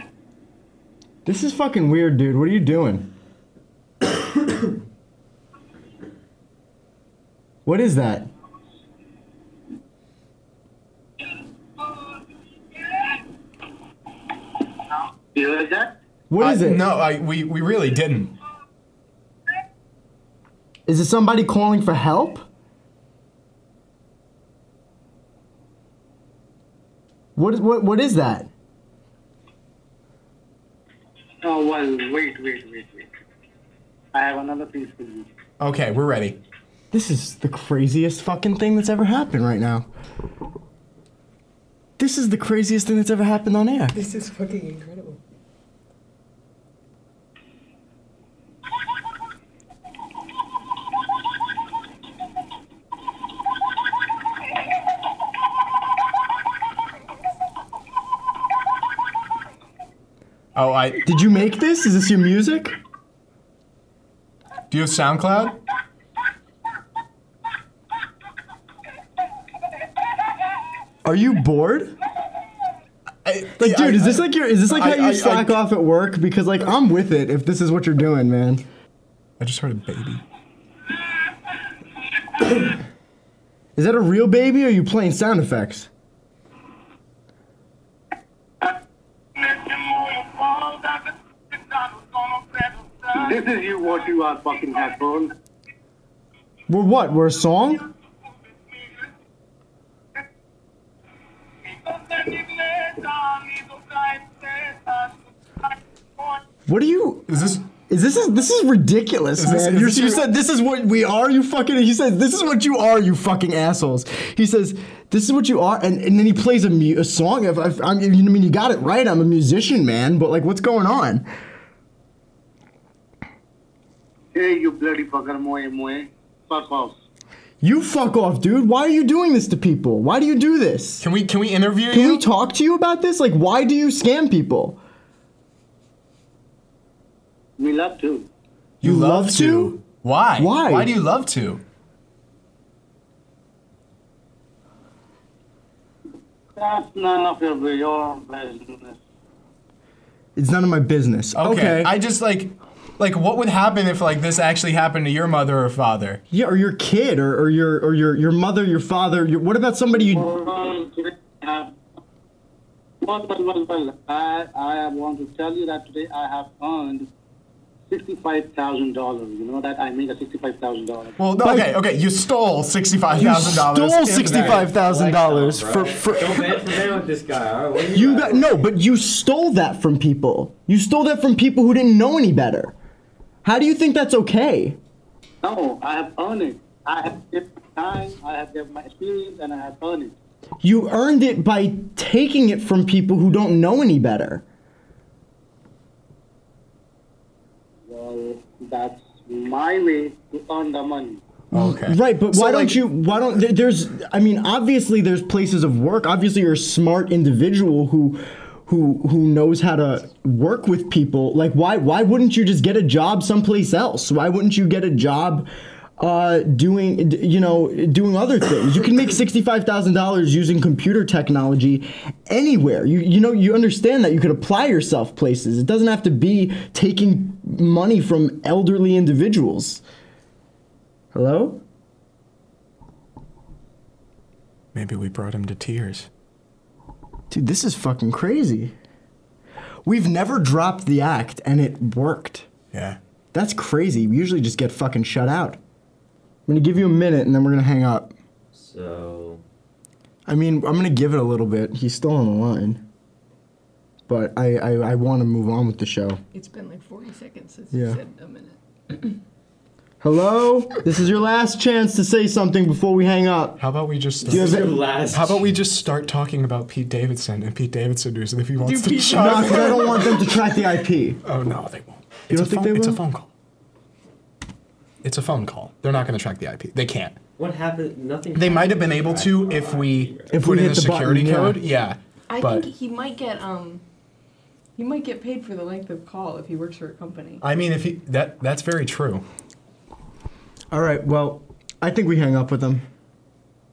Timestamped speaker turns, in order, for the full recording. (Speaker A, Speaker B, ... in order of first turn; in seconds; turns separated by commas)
Speaker A: 1.2-3.1, Speaker A: 7.7-8.3, Speaker B: 12.8-13.2, Speaker B: 15.3-16.0, Speaker A: 16.3-16.8, Speaker C: 16.4-18.4, Speaker A: 20.9-22.4, Speaker A: 27.4-28.5, Speaker B: 31.4-33.1, Speaker B: 34.1-35.3, Speaker C: 35.6-36.4, Speaker A: 36.9-39.9, Speaker A: 42.0-44.0, Speaker D: 43.9-45.2, Speaker C: 60.5-61.0, Speaker A: 61.0-62.8, Speaker C: 64.7-65.6, Speaker A: 71.0-72.0, Speaker C: 73.2-75.6, Speaker A: 73.6-78.6, Speaker C: 79.4-80.2, Speaker A: 83.8-85.9, Speaker B: 89.3-95.3, Speaker A: 96.7-97.8, Speaker B: 101.6-106.4, Speaker A: 106.7-121.2, Speaker C: 107.3-107.6, Speaker C: 109.4-110.2, Speaker B: 124.3-127.0, Speaker A: 127.6-131.0, Speaker C: 131.0-132.2, Speaker A: 131.9-134.8, Speaker B: 137.6-138.3, Speaker C: 138.8-141.6, Speaker A: 138.8-139.8, Speaker A: 140.4-140.9, Speaker B: 146.6-149.0, Speaker A: 150.3-151.9, Speaker C: 151.3-156.2, Speaker A: 156.3-160.3, Speaker B: 160.0-161.7, Speaker B: 163.0-167.1, Speaker B: 167.9-171.2, Speaker C: 171.2-174.7, Speaker A: 171.4-171.7, Speaker A: 173.1-176.8, Speaker E: 174.2-178.6, Speaker A: 177.9-182.7, Speaker A: 183.4-184.8, Speaker B: 185.4-190.1, Speaker A: 190.6-194.4, Speaker B: 197.9-201.2, Speaker C: 201.5-202.8, Speaker A: 201.5-229.8, Speaker A: 231.1-231.6, Speaker C: 234.7-236.1, Speaker A: 237.3-238.7, Speaker A: 239.8-242.5, Speaker C: 242.7-243.0, Speaker A: 243.3-245.6, Speaker A: 246.5-248.1, Speaker E: 248.5-249.4, Speaker A: 250.2-252.8, Speaker A: 254.1-256.2, Speaker D: 256.3-259.1, Speaker A: 257.7-258.0, Speaker A: 260.0-263.6, Speaker C: 263.6-270.0, Speaker A: 264.2-264.7, Speaker E: 264.2-265.5, Speaker D: 268.6-270.2, Speaker A: 269.1-271.2, Speaker C: 271.2-273.3, Speaker A: 272.3-273.0, Speaker C: 275.0-277.2, Speaker E: 277.4-280.3, Speaker C: 278.3-282.6, Speaker A: 280.3-281.6, Speaker D: 282.3-283.8, Speaker D: 284.8-287.4, Speaker C: 287.4-289.2, Speaker A: 290.7-292.9